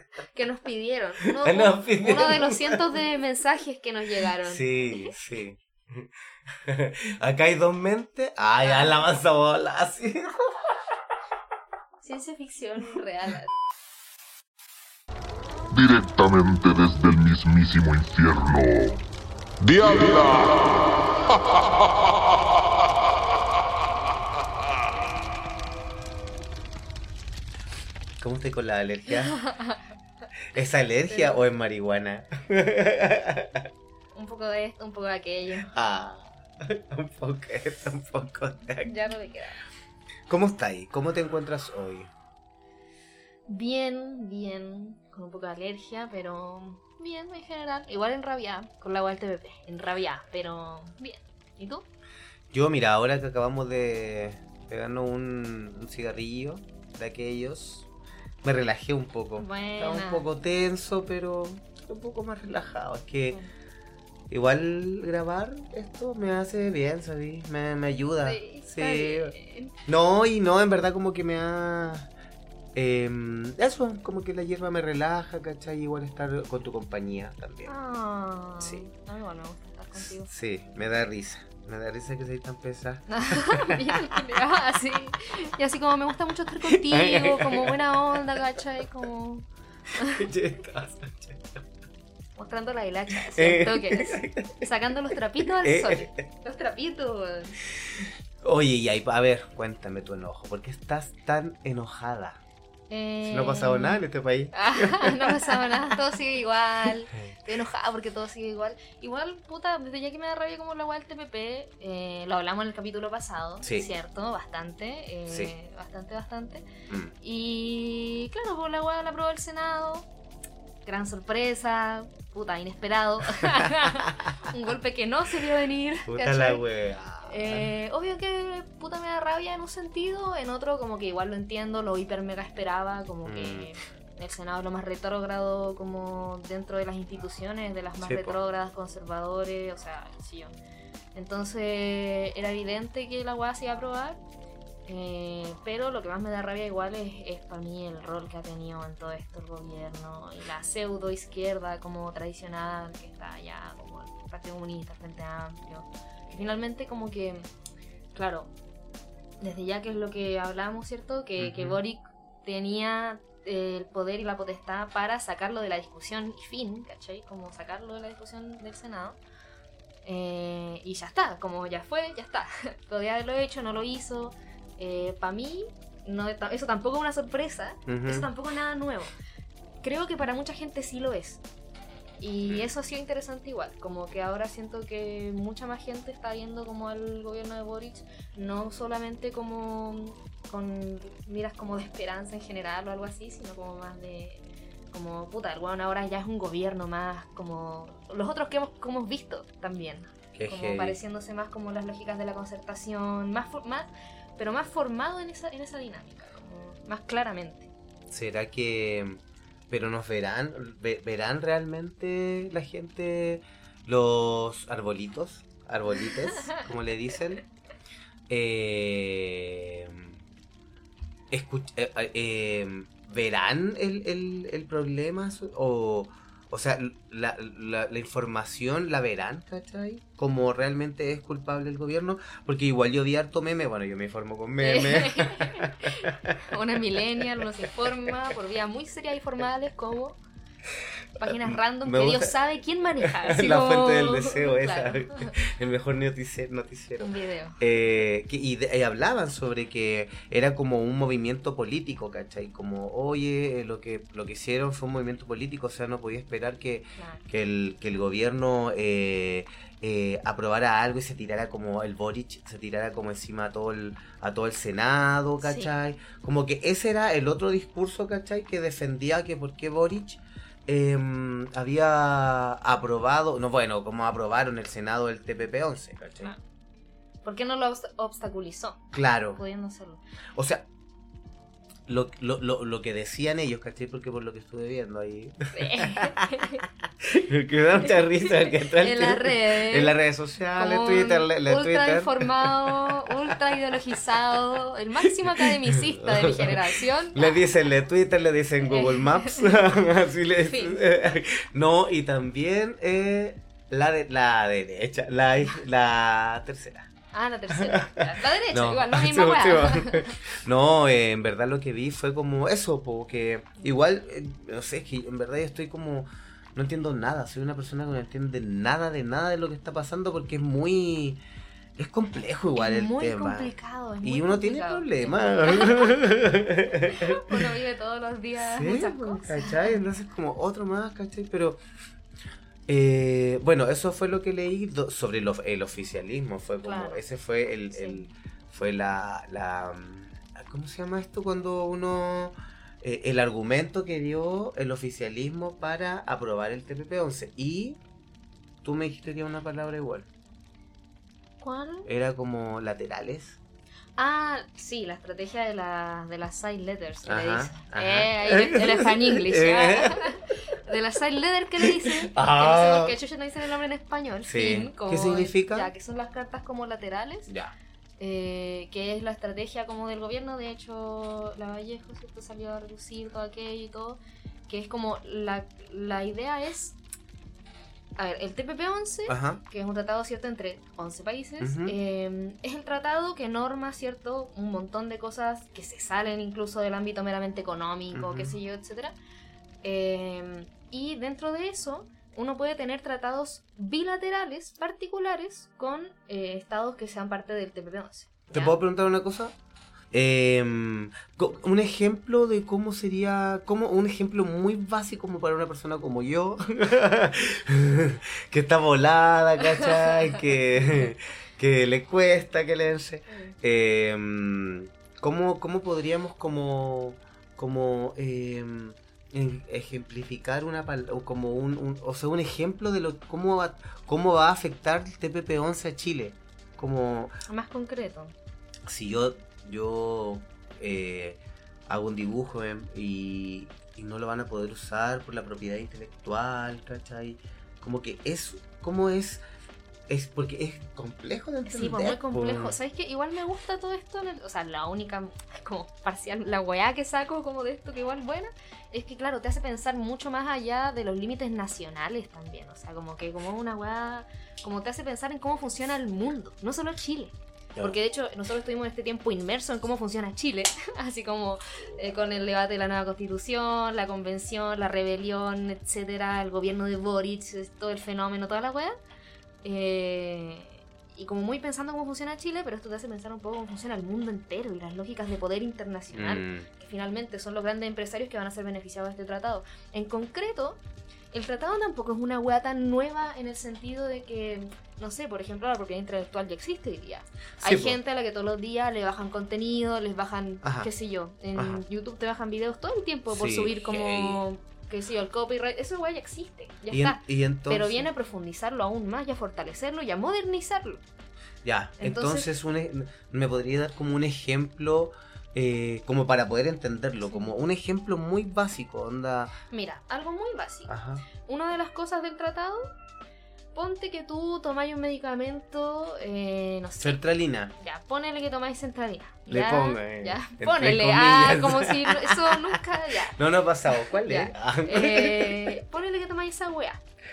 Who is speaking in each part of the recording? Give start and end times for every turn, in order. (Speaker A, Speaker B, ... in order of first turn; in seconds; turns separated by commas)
Speaker A: 0.3-5.1, Speaker B: 1.2-2.9, Speaker B: 4.4-10.3, Speaker A: 8.6-9.0, Speaker A: 12.0-13.5, Speaker C: 15.7-19.0, Speaker C: 19.6-20.7, Speaker B: 28.2-29.4, Speaker A: 29.3-29.8, Speaker B: 30.5-33.7, Speaker A: 31.1-31.4, Speaker A: 34.1-35.7, Speaker B: 35.6-39.0, Speaker A: 38.9-39.6, Speaker B: 40.3-42.1, Speaker A: 43.5-51.9, Speaker B: 52.5-57.9, Speaker B: 58.4-63.4, Speaker A: 59.4-60.3, Speaker B: 64.3-69.3, Speaker A: 68.2-69.8, Speaker B: 69.9-72.1, Speaker B: 72.8-77.7, Speaker A: 77.7-80.3, Speaker B: 78.6-78.9, Speaker B: 80.0-84.2, Speaker A: 83.1-90.2, Speaker B: 86.7-88.6, Speaker B: 90.0-91.6, Speaker A: 92.4-97.6, Speaker B: 93.2-94.7, Speaker B: 95.4-96.3, Speaker B: 97.7-102.4, Speaker A: 102.9-116.7, Speaker B: 103.2-105.8, Speaker B: 113.6-113.9, Speaker B: 115.3-115.5, Speaker B: 116.9-117.2, Speaker A: 117.2-120.1, Speaker A: 120.8-126.6, Speaker B: 126.1-127.7, Speaker A: 127.2-140.6, Speaker B: 133.2-133.7, Speaker B: 138.0-138.4, Speaker A: 141.2-144.2, Speaker A: 144.9-157.5, Speaker A: 158.1-158.5, Speaker A: 159.4-169.2, Speaker B: 161.4-161.8, Speaker A: 170.0-179.1, Speaker B: 177.9-178.3, Speaker A: 179.8-181.4, Speaker A: 182.2-207.7, Speaker B: 182.4-182.7, Speaker B: 200.3-201.0, Speaker B: 208.1-217.4, Speaker B: 218.3-220.2, Speaker B: 221.3-236.5, Speaker A: 234.6-240.2, Speaker B: 237.4-237.7, Speaker A: 241.2-245.4, Speaker B: 241.2-242.3, Speaker B: 243.0-276.3, Speaker A: 247.0-247.6, Speaker A: 257.0-257.2, Speaker A: 265.4-265.7, Speaker A: 277.2-278.8, Speaker B: 278.9-279.4, Speaker A: 279.4-280.0, Speaker B: 280.4-280.7, Speaker B: 281.9-293.4, Speaker A: 285.5-286.6, Speaker A: 287.8-290.0, Speaker A: 290.6-297.5, Speaker B: 295.0-306.9, Speaker A: 298.7-299.6, Speaker A: 300.5-301.0, Speaker A: 307.1-310.2, Speaker B: 307.5-321.2, Speaker B: 321.8-327.5, Speaker A: 322.5-325.9, Speaker A: 326.9-329.8, Speaker B: 328.4-331.6, Speaker B: 332.7-347.8, Speaker A: 336.6-337.0, Speaker A: 337.7-338.0, Speaker B: 348.6-350.1, Speaker A: 351.4-351.9, Speaker B: 351.9-353.4, Speaker A: 354.0-367.3, Speaker B: 357.1-360.1, Speaker B: 361.6-363.0, Speaker B: 364.2-365.7, Speaker B: 367.3-367.5, Speaker A: 368.0-376.8, Speaker A: 378.0-389.0, Speaker B: 379.1-379.4, Speaker B: 381.4-381.8, Speaker B: 387.9-388.3, Speaker A: 389.6-398.6, Speaker B: 398.3-399.4, Speaker B: 399.9-427.1, Speaker A: 413.1-413.3, Speaker A: 427.3-428.1, Speaker B: 428.7-439.2, Speaker B: 439.9-442.6, Speaker A: 441.5-468.8, Speaker B: 461.6-461.9, Speaker A: 469.4-480.6, Speaker B: 475.9-476.5, Speaker A: 481.1-500.8, Speaker B: 487.4-487.8, Speaker B: 490.4-490.7, Speaker B: 491.4-491.6, Speaker B: 493.1-494.2, Speaker B: 496.7-497.9, Speaker B: 501.4-509.4, Speaker A: 501.8-502.3, Speaker A: 509.5-512.7, Speaker B: 510.7-511.1, Speaker A: 513.5-517.0, Speaker B: 516.8-517.5, Speaker A: 517.6-523.2, Speaker B: 519.3-525.6, Speaker A: 523.7-526.8